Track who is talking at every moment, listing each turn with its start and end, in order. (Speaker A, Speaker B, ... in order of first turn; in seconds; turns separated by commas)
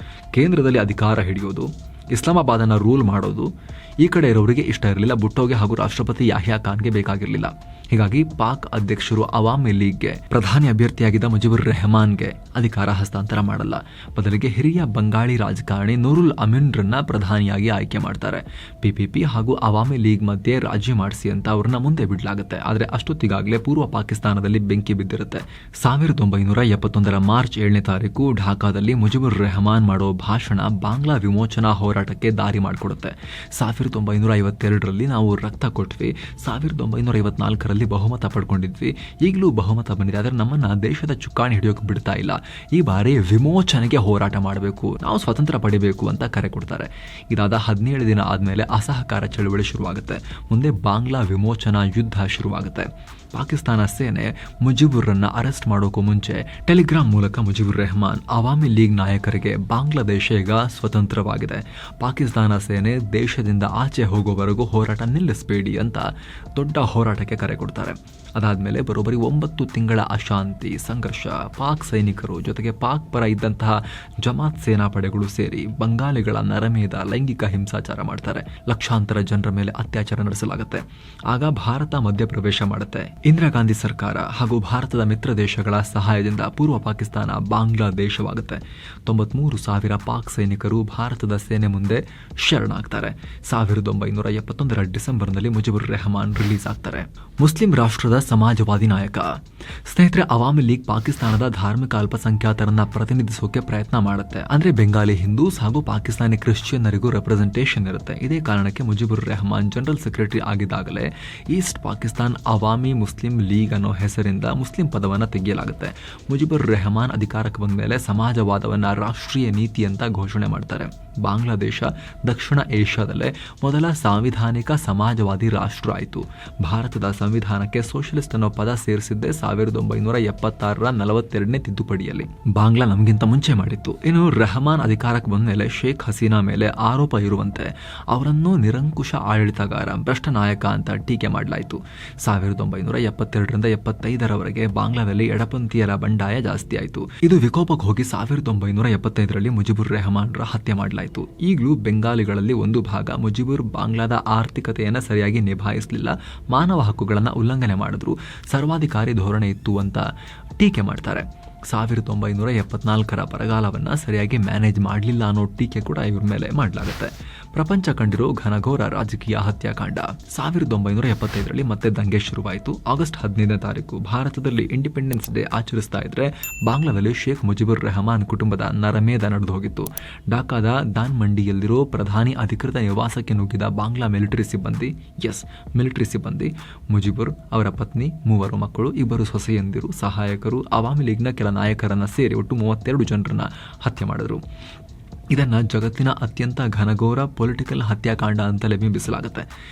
Speaker A: 0.3-160.1, Speaker A: 160.6-194.4, Speaker A: 195.3-199.5